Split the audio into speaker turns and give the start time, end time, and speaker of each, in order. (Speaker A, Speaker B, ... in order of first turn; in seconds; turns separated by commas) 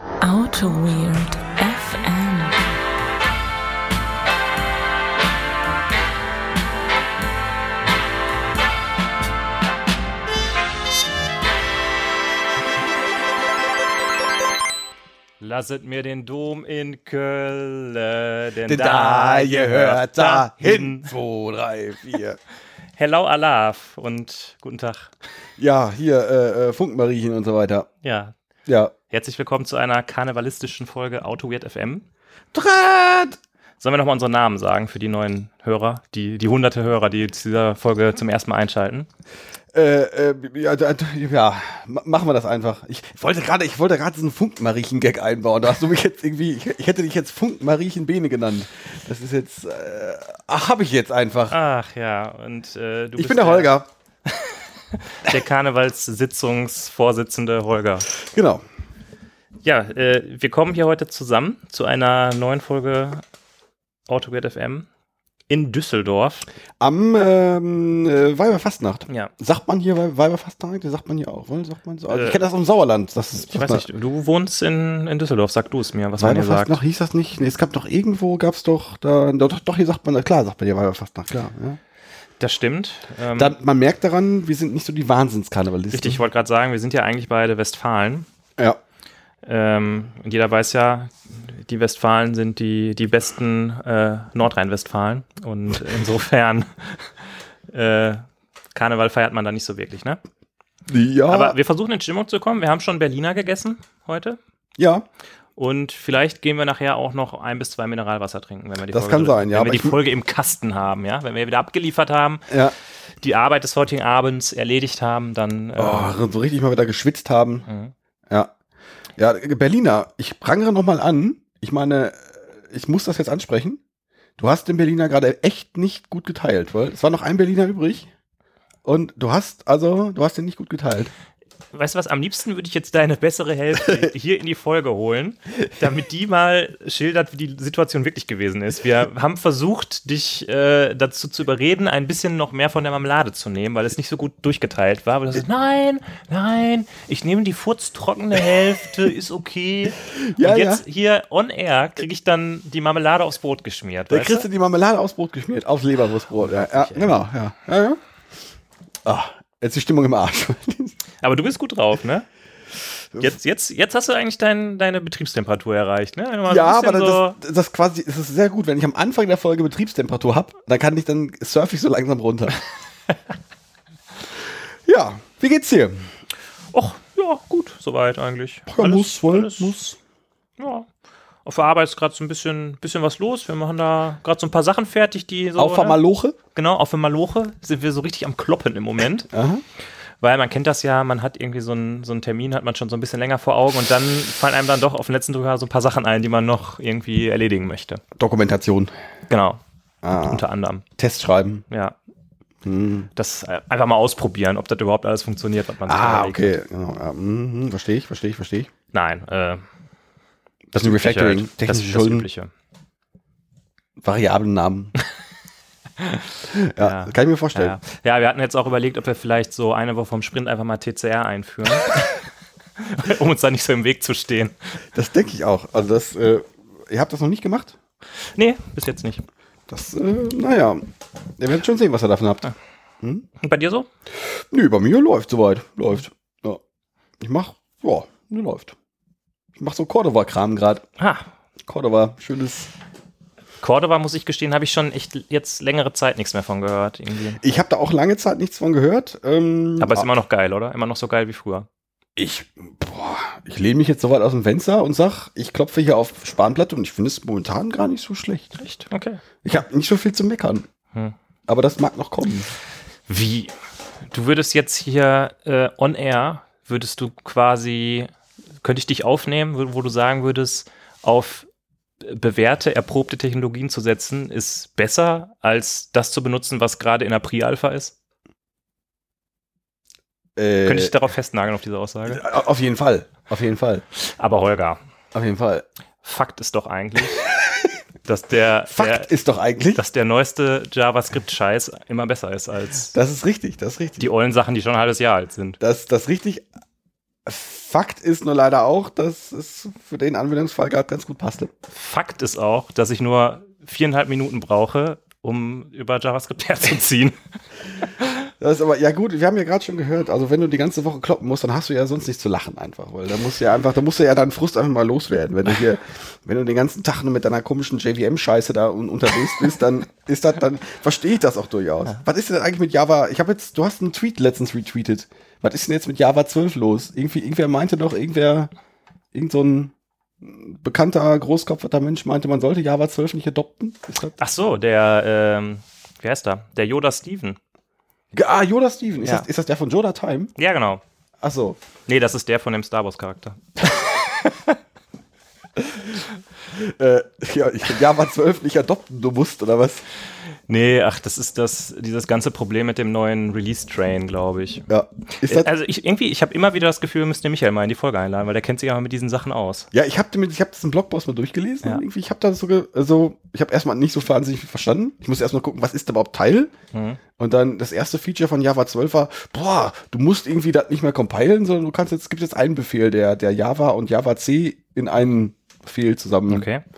Speaker A: 0.2-2.7, Speaker B: 15.4-21.1, Speaker C: 18.7-22.4, Speaker B: 23.0-25.1, Speaker C: 25.6-27.9, Speaker B: 28.0-28.3, Speaker C: 28.7-28.9, Speaker B: 29.1-32.1, Speaker C: 32.5-33.4, Speaker B: 33.8-39.1, Speaker C: 39.7-51.6, Speaker B: 51.5-53.7, Speaker C: 53.2-53.9, Speaker B: 54.3-58.1, Speaker C: 58.1-58.6, Speaker B: 59.6-63.2, Speaker B: 64.1-64.9, Speaker B: 65.5-66.5, Speaker C: 66.8-73.8, Speaker B: 72.1-72.4, Speaker B: 73.5-76.8, Speaker C: 76.2-81.8, Speaker B: 82.4-83.5, Speaker C: 83.3-86.2, Speaker B: 85.9-88.3, Speaker B: 89.4-97.1, Speaker B: 97.7-100.2, Speaker C: 100.9-101.6, Speaker B: 101.3-104.4, Speaker C: 104.8-105.0, Speaker B: 105.6-112.5, Speaker C: 108.9-110.0, Speaker B: 113.2-116.1, Speaker C: 115.8-117.7, Speaker B: 117.7-117.9, Speaker C: 119.2-123.8, Speaker C: 124.4-128.1, Speaker C: 128.8-131.1, Speaker B: 131.7-154.5, Speaker C: 150.1-150.8, Speaker C: 154.1-158.0, Speaker B: 156.3-157.2, Speaker C: 159.1-161.0, Speaker B: 161.2-162.3, Speaker B: 163.2-167.4, Speaker C: 166.5-172.6, Speaker C: 174.9-176.1, Speaker B: 176.7-179.9, Speaker C: 178.7-179.9, Speaker B: 180.6-180.9, Speaker B: 181.4-186.0, Speaker C: 185.6-186.4, Speaker B: 186.6-189.3, Speaker C: 189.3-189.6, Speaker B: 190.2-198.0, Speaker C: 198.2-198.9, Speaker B: 199.3-199.6, Speaker C: 200.0-200.4, Speaker B: 200.2-200.8, Speaker C: 201.0-201.7, Speaker B: 201.7-202.0, Speaker C: 202.6-203.1, Speaker B: 203.2-206.6, Speaker C: 205.9-208.7, Speaker B: 208.9-209.6, Speaker C: 210.7-212.3, Speaker B: 210.8-212.5, Speaker C: 214.0-214.9, Speaker B: 216.0-222.2, Speaker C: 216.5-217.8, Speaker B: 222.8-224.6, Speaker C: 224.9-227.8, Speaker B: 228.2-229.2, Speaker C: 229.7-230.8, Speaker C: 231.4-232.5, Speaker B: 233.4-233.9, Speaker C: 234.2-236.6, Speaker C: 237.2-238.8, Speaker C: 239.6-240.9, Speaker B: 241.0-241.3, Speaker C: 241.7-242.7, Speaker B: 243.6-247.4, Speaker C: 247.4-250.1, Speaker B: 249.8-251.7, Speaker C: 252.2-258.6, Speaker B: 258.6-259.2, Speaker C: 259.4-260.7, Speaker C: 261.5-262.5, Speaker B: 263.1-263.5, Speaker B: 264.1-268.1, Speaker B: 268.6-271.5, Speaker B: 272.0-277.9, Speaker C: 280.4-281.0, Speaker B: 280.6-282.2, Speaker C: 282.1-283.9, Speaker B: 284.0-284.8, Speaker C: 285.1-285.6, Speaker B: 286.0-287.2, Speaker B: 288.1-289.1, Speaker C: 288.7-289.8, Speaker B: 289.7-292.9, Speaker C: 292.9-294.1, Speaker B: 294.0-295.6, Speaker C: 295.6-296.5, Speaker C: 297.2-301.5, Speaker B: 301.7-307.2, Speaker C: 308.4-328.5, Speaker C: 329.1-334.1, Speaker B: 334.2-337.4, Speaker C: 338.1-340.3, Speaker B: 340.4-340.8, Speaker C: 341.2-341.6, Speaker B: 341.9-344.6, Speaker C: 345.6-349.9, Speaker B: 350.5-354.7, Speaker C: 354.7-355.5, Speaker B: 355.2-359.7, Speaker C: 359.7-366.5, Speaker B: 366.7-367.0, Speaker C: 367.2-376.5, Speaker B: 376.3-376.6